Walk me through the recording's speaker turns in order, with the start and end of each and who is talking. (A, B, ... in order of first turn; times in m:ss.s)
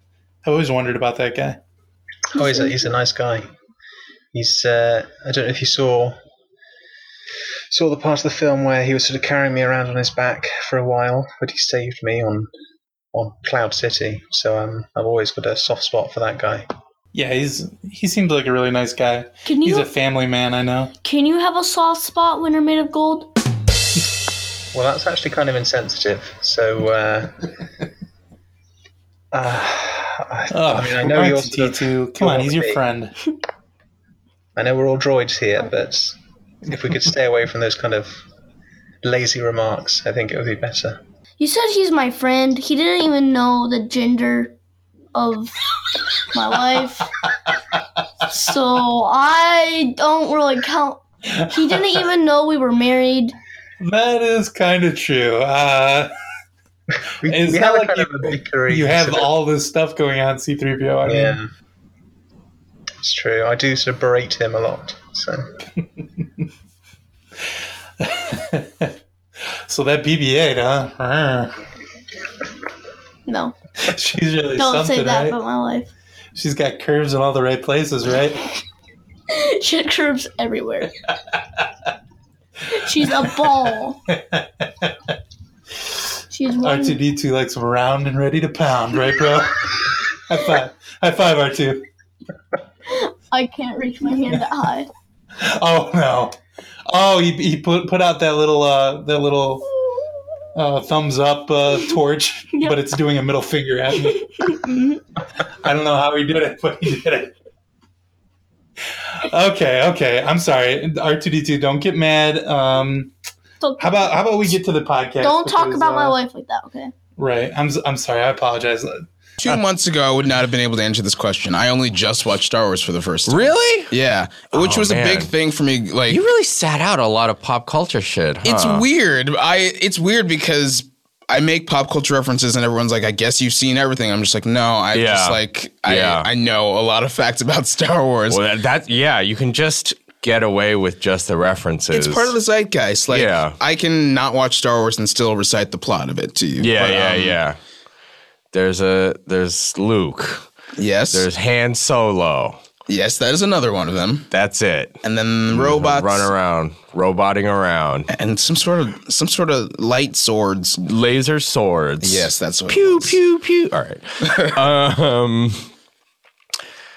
0:00.4-0:01.6 A
0:02.3-0:03.5 B
0:02.4-0:02.8 C
0:04.3-0:06.2 B
0:07.7-0:12.5 B
0:13.1-0:16.7 B
0:17.1-0:20.9 A
0:19.5-0:19.9 C
0:21.0-0:23.3 C
0:24.7-0:27.5 B
0:29.3-0:32.8 B
0:30.5-0:33.2 A
0:34.6-0:38.2 B
0:39.0-0:41.0 B
0:41.4-0:44.6 C
0:45.1-0:45.6 C
0:46.2-0:47.1 C
0:48.2-0:53.4 C
0:51.3-0:52.0 A
0:53.8-0:56.1 A
0:56.9-0:59.3 B
0:57.2-1:01.4 A
1:01.0-1:01.5 B
1:03.0-1:05.5 B
1:08.0-1:11.6 A
1:13.3-1:13.6 C
1:13.8-1:15.4 A
1:14.6-1:15.9 C
1:16.4-1:18.5 A
1:19.3-1:21.0 C
1:21.3-1:21.6 A
1:22.7-1:24.0 C
1:23.0-1:24.9 A
1:26.3-1:27.0 C
1:26.6-1:31.8 A
1:32.9-1:34.9 C
1:35.4-1:39.7 A
1:40.5-1:44.6 A
1:44.0-1:45.0 C
1:45.5-1:47.3 A
1:48.9-1:53.1 A
1:53.6-1:54.6 C
1:53.8-1:56.2 A
1:55.2-1:56.9 C
1:57.2-1:59.6 A
1:59.4-2:06.2 D
2:03.3-2:03.9 E
2:04.5-2:05.3 E
2:06.1-2:08.9 E
2:08.4-2:18.4 D
2:14.9-2:16.3 E
2:18.3-2:22.4 E
2:21.9-2:27.4 D
2:23.1-2:23.6 E
2:26.6-2:27.6 E
2:28.5-2:30.5 E
2:30.8-2:31.3 D
2:31.1-2:32.6 E
2:32.9-2:34.3 D
2:34.3-2:38.1 E
2:35.0-2:36.3 D
2:38.1-2:40.8 D
2:40.8-2:45.7 E
2:42.0-2:43.2 D
2:44.3-2:44.6 D